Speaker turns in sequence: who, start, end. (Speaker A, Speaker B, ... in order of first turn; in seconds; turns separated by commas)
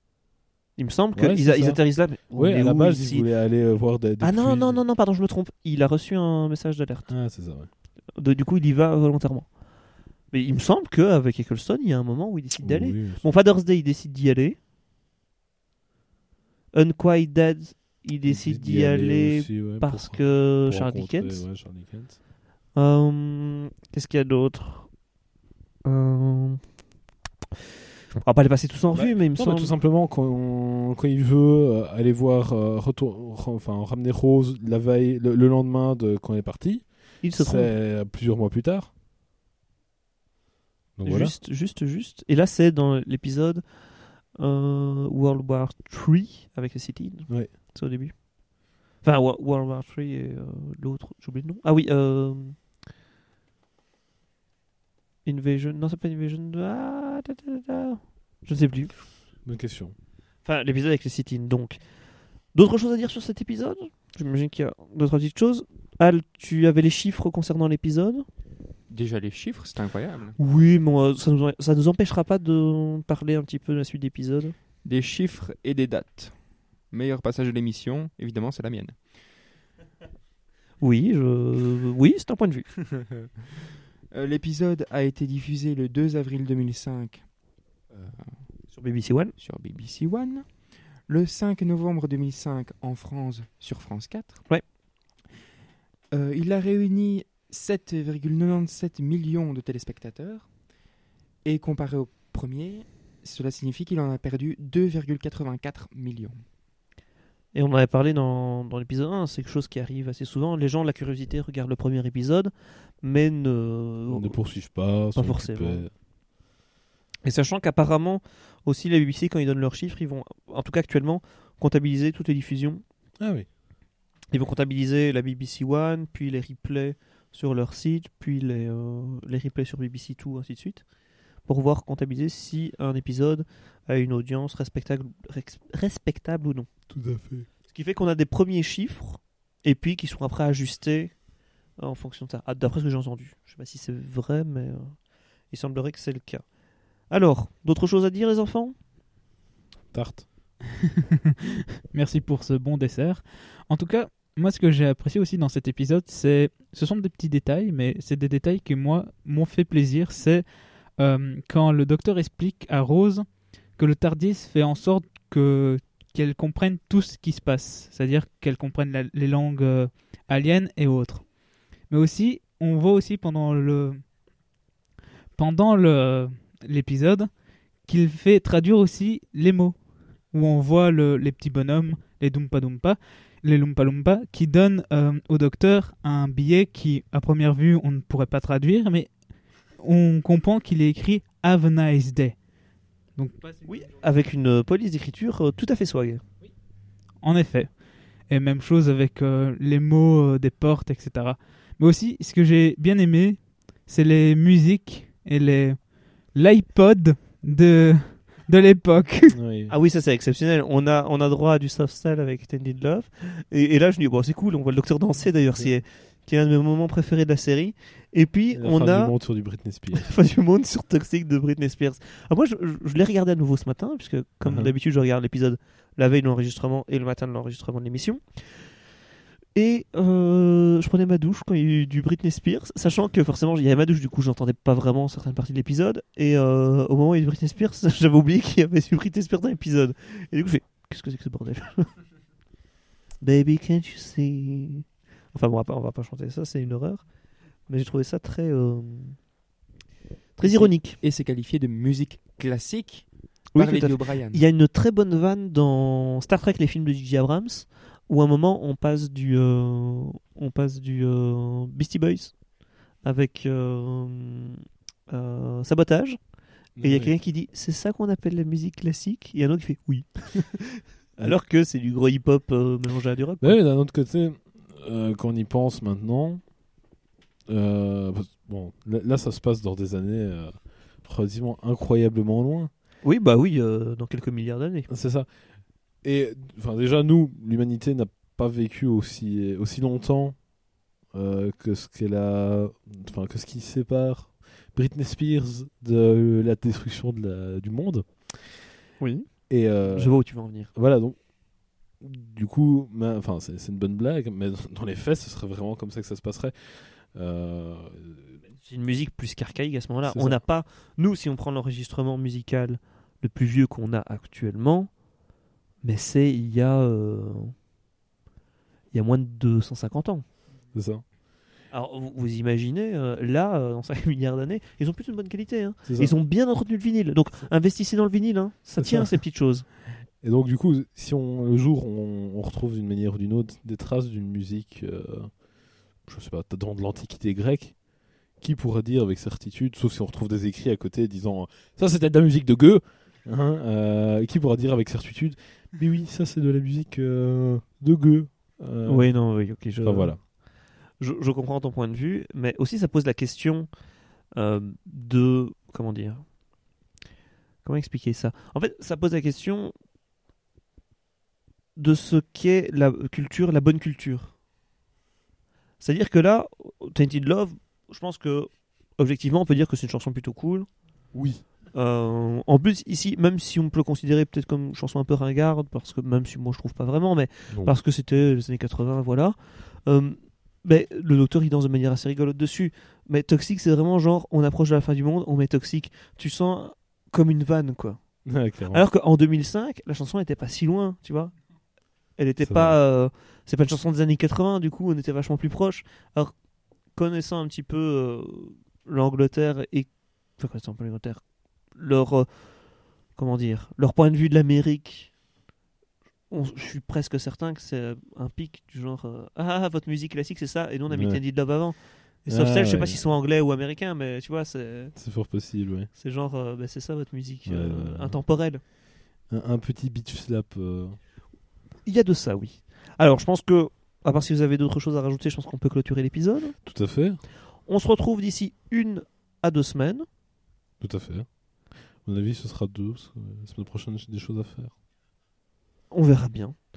Speaker A: 0.8-3.3, Speaker B: 1.1-4.8, Speaker A: 4.2-7.1, Speaker B: 7.1-7.7, Speaker A: 8.1-9.5, Speaker A: 10.3-14.6, Speaker B: 12.6-13.2, Speaker A: 16.7-21.4, Speaker B: 18.2-22.2, Speaker A: 22.7-24.9, Speaker A: 25.8-26.6, Speaker A: 28.2-29.7, Speaker B: 28.9-38.9, Speaker A: 37.2-37.7, Speaker B: 41.0-41.3, Speaker A: 41.0-43.6, Speaker A: 44.4-48.2, Speaker A: 49.0-52.6, Speaker A: 55.2-58.9, Speaker B: 59.4-59.9, Speaker A: 60.4-61.8, Speaker A: 62.5-68.2, Speaker C: 68.9-70.4, Speaker A: 70.4-74.5, Speaker C: 74.8-76.3, Speaker C: 76.9-79.0, Speaker A: 80.8-82.7, Speaker C: 84.1-87.2, Speaker C: 87.9-88.3, Speaker A: 88.7-89.3, Speaker C: 89.4-90.5, Speaker C: 91.1-94.4, Speaker C: 96.1-100.5, Speaker C: 101.4-106.4, Speaker A: 107.5-114.4, Speaker B: 114.1-115.9, Speaker A: 115.1-115.9, Speaker A: 117.2-122.8, Speaker B: 123.2-123.5, Speaker A: 124.3-130.8, Speaker A: 131.4-136.7, Speaker B: 136.9-137.5, Speaker A: 137.7-141.2, Speaker A: 141.8-144.9, Speaker A: 145.5-146.4, Speaker A: 147.1-148.8, Speaker B: 149.9-150.2, Speaker D: 151.9-160.4, Speaker D: 161.0-171.3, Speaker D: 171.9-174.0, Speaker D: 175.3-177.3, Speaker D: 177.8-179.8, Speaker D: 180.3-189.1, Speaker D: 189.8-192.4, Speaker D: 193.2-193.6, Speaker A: 193.7-196.2, Speaker D: 197.2-197.7, Speaker D: 198.3-209.4, Speaker B: 209.3-209.7, Speaker A: 209.7-219.1, Speaker B: 218.5-220.1, Speaker A: 219.9-228.4, Speaker B: 224.4-224.7, Speaker A: 229.6-241.9, Speaker A: 243.2-247.0, Speaker A: 247.7-249.2, Speaker A: 250.4-251.0, Speaker C: 250.4-254.4, Speaker A: 253.5-262.4, Speaker A: 263.0-266.2, Speaker B: 266.8-267.1, Speaker A: 266.8-273.6, Speaker B: 273.4-276.4, Speaker B: 277.5-282.7, Speaker A: 283.0-284.9, Speaker B: 284.9-285.3, Speaker B: 286.0-290.4, Speaker B: 291.1-298.4, Speaker A: 299.0-299.3, Speaker B: 299.5-301.2, Speaker A: 299.8-300.7, Speaker B: 302.0-308.3, Speaker A: 308.6-314.9, Speaker B: 310.1-310.4, Speaker A: 315.8-317.5, Speaker A: 318.9-320.2, Speaker B: 320.7-321.0, Speaker A: 321.7-329.6, Speaker B: 325.9-326.1, Speaker B: 328.8-329.2, Speaker B: 330.2-335.3, Speaker B: 336.0-337.8, Speaker B: 338.4-349.1, Speaker A: 348.9-350.2, Speaker B: 349.8-350.2, Speaker A: 351.0-353.7, Speaker A: 354.4-356.2, Speaker A: 357.6-359.7, Speaker A: 361.8-364.3, Speaker A: 365.8-370.7, Speaker B: 371.1-371.4, Speaker A: 371.7-388.0, Speaker B: 388.2-388.8, Speaker A: 388.7-391.3, Speaker A: 392.2-396.3, Speaker B: 392.4-392.8, Speaker A: 396.9-401.2, Speaker A: 401.7-402.3, Speaker A: 403.1-405.1, Speaker A: 406.3-414.9, Speaker B: 410.9-411.2, Speaker B: 412.3-413.0, Speaker B: 414.9-415.9, Speaker A: 415.9-418.6, Speaker B: 417.4-418.1, Speaker B: 419.3-421.0, Speaker A: 421.9-426.6, Speaker B: 426.6-427.2, Speaker A: 427.6-430.1, Speaker B: 430.8-431.3, Speaker B: 432.0-434.7, Speaker A: 435.9-436.6